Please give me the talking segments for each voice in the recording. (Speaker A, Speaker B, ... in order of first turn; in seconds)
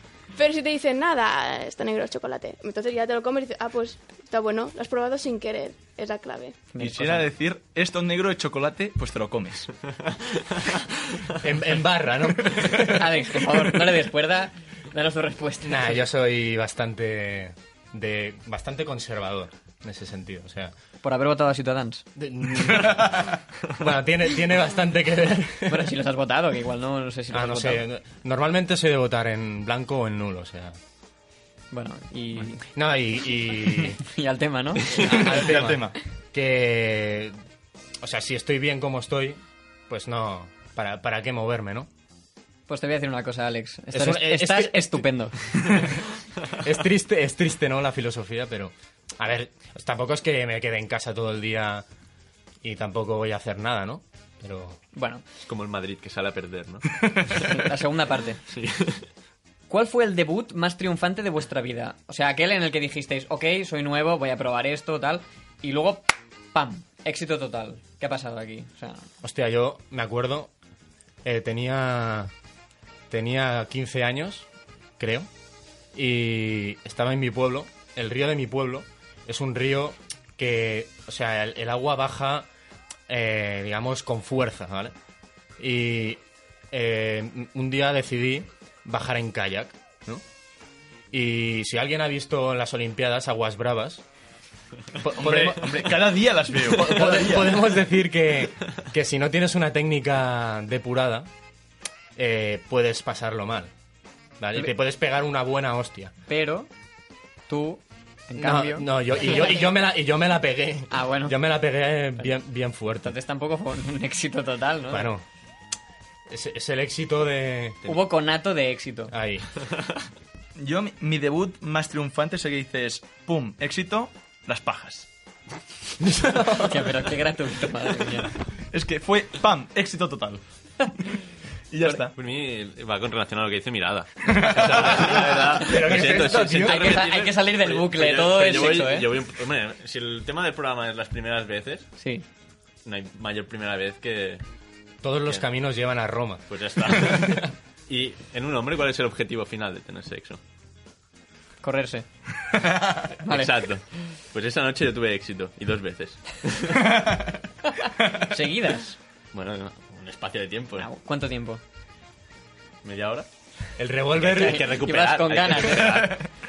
Speaker A: 0.4-6.6
Speaker B: 6.7-7.3, 12.9-16.0, 21.0-22.1, 25.7-27.8, 31.7-32.6, 34.0-35.3, 42.7-45.4, 54.9-55.2, 57.3-58.4, 59.7-69.1, 106.3-106.7, 107.5-109.3, 110.9-111.4, 113.0-115.1, 117.9-119.1, 126.6-128.3, 136.6-139.1, 142.0-142.2, 151.6-152.1, 153.2-153.5, 157.8-159.0, 160.8-161.6, 164.3-166.2
Speaker C: 6.8-9.7, 35.0-36.0, 95.2-97.6, 120.6-125.1, 128.7-130.4, 131.7-132.2
Speaker D: 11.4-13.2, 15.6-20.7, 22.2-25.9, 27.3-30.8, 32.5-34.0, 35.0-37.4, 38.0-41.9, 43.9-45.1, 46.6-51.9, 52.6-54.8, 69.2-70.5, 71.2-72.3, 73.1-74.5, 75.0-75.3, 75.9-82.5, 83.1-85.0, 85.6-86.2, 86.7-90.2, 91.1-94.0, 95.0-95.9, 96.6-101.3, 102.2-103.7, 104.4-106.1, 108.4-113.1, 114.9-115.2, 116.3-117.8, 119.1-119.5, 126.0-126.9, 134.9-137.0, 145.0-147.4, 163.8-164.7
Speaker E: 55.5-57.4, 58.5-59.1, 132.2-141.9, 142.8-144.4, 146.5-150.4, 153.3-157.0, 159.3-160.9, 162.8-163.3, 164.2-166.2